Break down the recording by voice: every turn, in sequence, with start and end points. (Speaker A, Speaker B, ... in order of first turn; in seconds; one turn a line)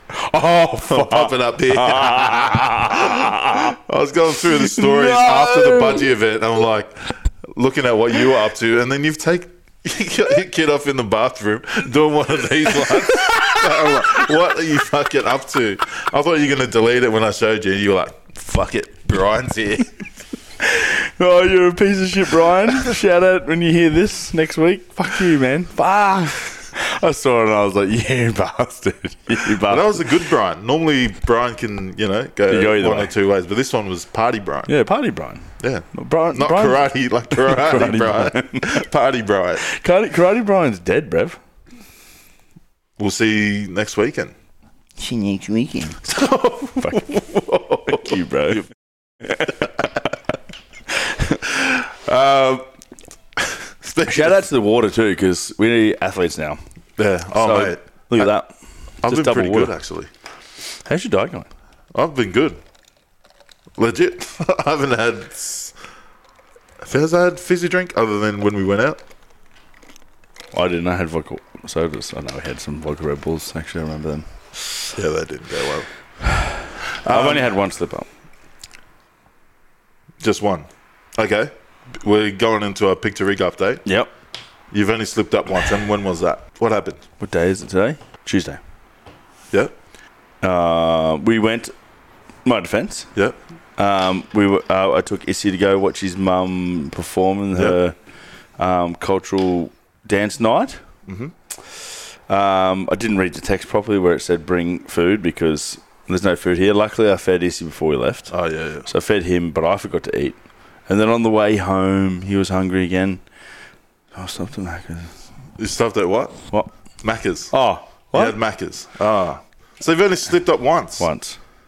Speaker A: 0.1-3.8
Speaker B: 0.8-20.0
Speaker A: 4.5-6.1
Speaker A: 12.7-14.3
Speaker A: 20.6-30.1
Speaker B: 29.6-34.7
Speaker A: 32.5-33.1
Speaker A: 34.7-38.8
Speaker B: 35.6-39.7
Speaker A: 39.6-41.4
Speaker B: 43.0-44.3
Speaker A: 45.0-46.0
Speaker B: 46.0-48.1
Speaker A: 47.9-48.6
Speaker B: 49.4-49.7
Speaker B: 51.3-52.6
Speaker B: 53.4-54.4
Speaker A: 54.0-56.6
Speaker B: 57.0-58.3
Speaker A: 57.3-58.5
Speaker B: 59.0-60.1
Speaker A: 59.0-59.7
Speaker A: 60.9-61.5
Speaker B: 61.9-62.6
Speaker B: 63.8-65.7
Speaker B: 66.8-69.0
Speaker A: 70.5-74.2
Speaker B: 74.9-75.9
Speaker A: 76.2-78.1
Speaker B: 77.0-77.6
Speaker B: 80.2-83.8
Speaker A: 83.8-84.1
Speaker B: 84.7-87.0
Speaker A: 87.2-88.6
Speaker A: 90.4-91.7
Speaker A: 92.4-93.1
Speaker A: 93.8-98.0
Speaker A: 98.6-100.8
Speaker B: 101.1-101.3
Speaker A: 102.3-108.3
Speaker B: 108.3-108.9
Speaker A: 108.9-113.2
Speaker A: 114.1-115.1
Speaker B: 115.6-116.4
Speaker B: 117.0-117.5
Speaker A: 117.5-118.4
Speaker B: 118.1-121.1
Speaker A: 121.0-121.4